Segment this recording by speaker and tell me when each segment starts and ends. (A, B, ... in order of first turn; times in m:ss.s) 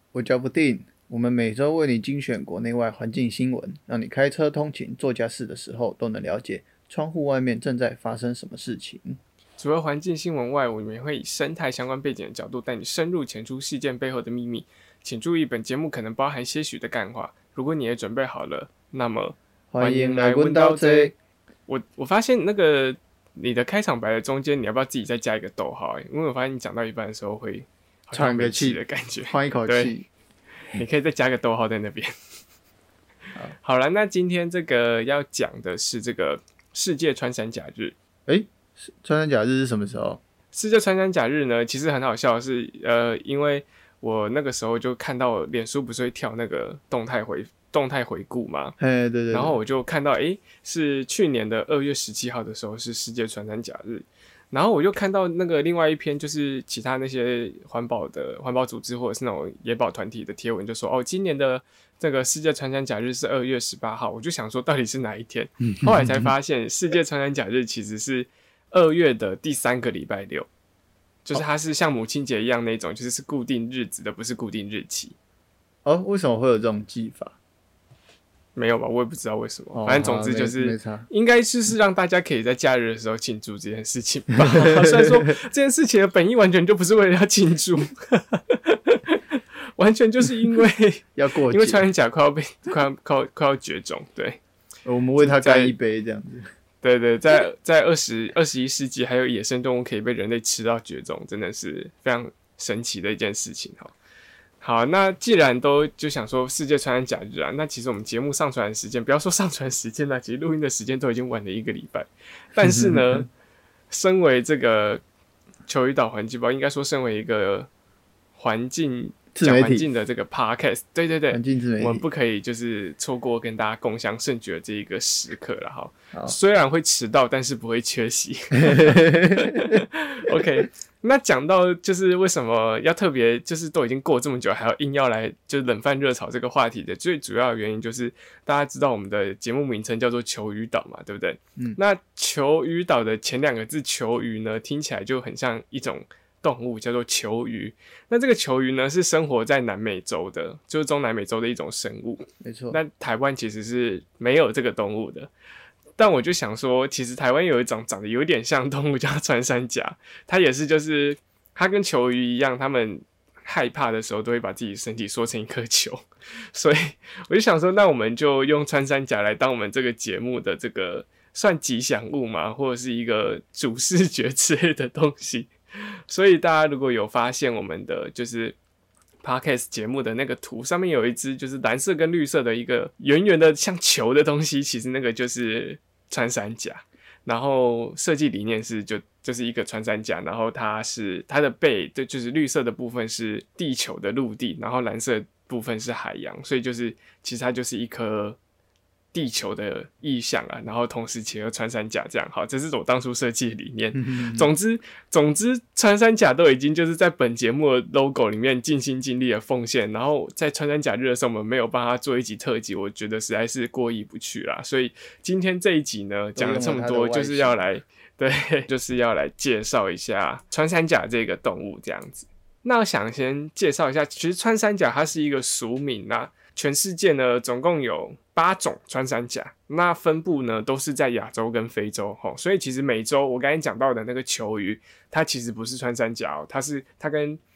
0:00.1-0:09.2 A
0:09.6-0:21.1 B
0:19.7-0:21.1 A
0:21.7-0:29.9 B
0:28.1-0:30.1 A
0:30.7-0:32.1 B
0:33.6-0:37.9 B
0:38.3-0:40.2 A
0:40.5-0:48.7 B
0:48.8-0:49.6 A
0:49.3-1:10.5 B
1:05.8-1:06.3 A
1:11.2-1:15.2 B
1:15.8-1:17.4 A
1:18.5-1:34.4 B
1:19.7-1:21.1 A
1:24.4-1:25.2 A
1:31.2-1:31.8 A
1:34.8-1:36.4 A
1:35.2-1:35.7 B
1:36.8-1:43.9 B
1:44.6-1:53.3 B
1:52.6-1:53.2 A
1:53.9-1:55.0 B
1:55.7-1:57.7 B
1:58.4-2:35.3 B
1:59.3-1:59.8 A
2:01.3-2:02.0 A
2:08.6-2:10.4 A
2:32.4-2:32.8 A
2:36.0-2:55.5 B
2:56.1-2:58.6 B
2:59.2-3:18.4 B
3:19.1-3:57.4 B
3:23.9-3:24.5 A
3:36.4-3:37.6 A